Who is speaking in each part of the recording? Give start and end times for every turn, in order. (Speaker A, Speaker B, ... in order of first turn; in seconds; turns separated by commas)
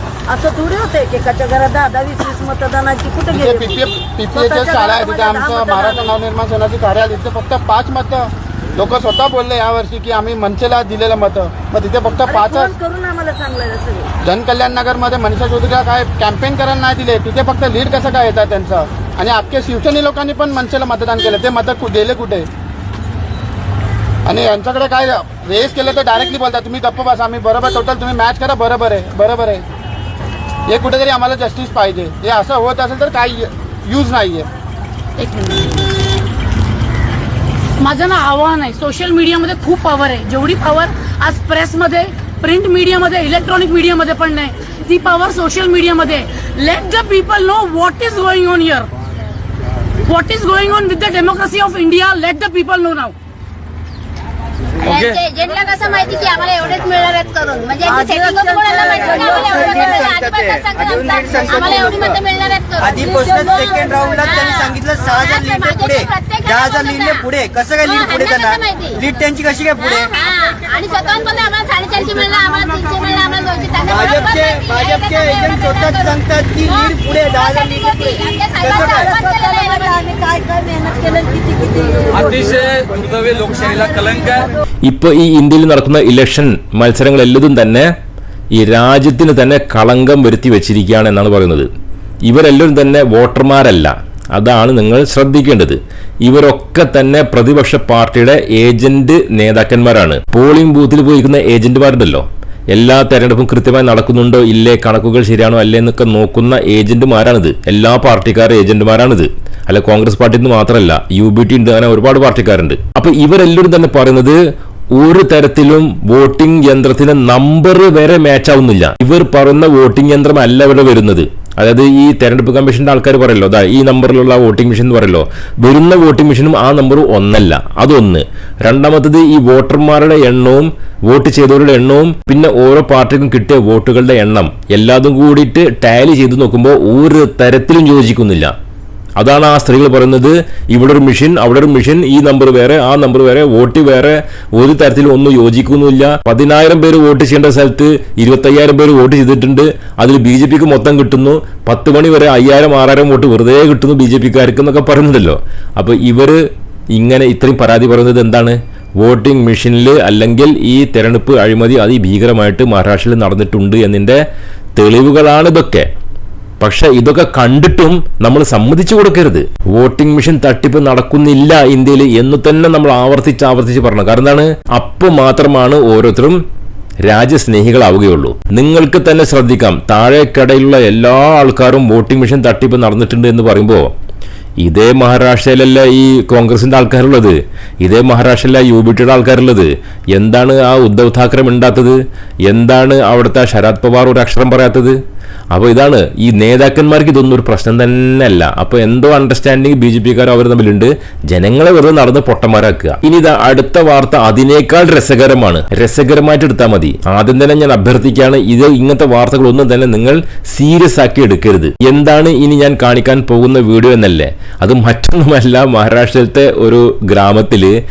Speaker A: 0.3-6.2, Speaker B: 3.3-12.7, Speaker A: 12.2-14.1, Speaker B: 14.2-22.5, Speaker B: 24.2-29.6, Speaker B: 30.7-34.5, Speaker C: 35.2-35.8, Speaker C: 37.8-48.9, Speaker C: 50.0-53.1, Speaker D: 54.8-67.3, Speaker A: 57.8-60.2, Speaker E: 58.9-62.2, Speaker E: 62.8-70.1, Speaker A: 63.0-63.3, Speaker D: 67.8-69.0, Speaker D: 69.8-80.1, Speaker E: 73.9-78.0, Speaker E: 78.6-79.1, Speaker A: 78.9-82.6, Speaker F: 82.2-84.5, Speaker A: 83.6-84.2, Speaker G: 84.9-87.9, Speaker G: 88.5-91.7, Speaker G: 92.2-114.4, Speaker G: 115.0-138.5, Speaker G: 139.2-156.4, Speaker G: 156.9-164.2, Speaker G: 164.8-165.8, Speaker G: 166.6-176.4, Speaker G: 177.1-183.9, Speaker G: 184.6-195.0, Speaker G: 195.5-217.8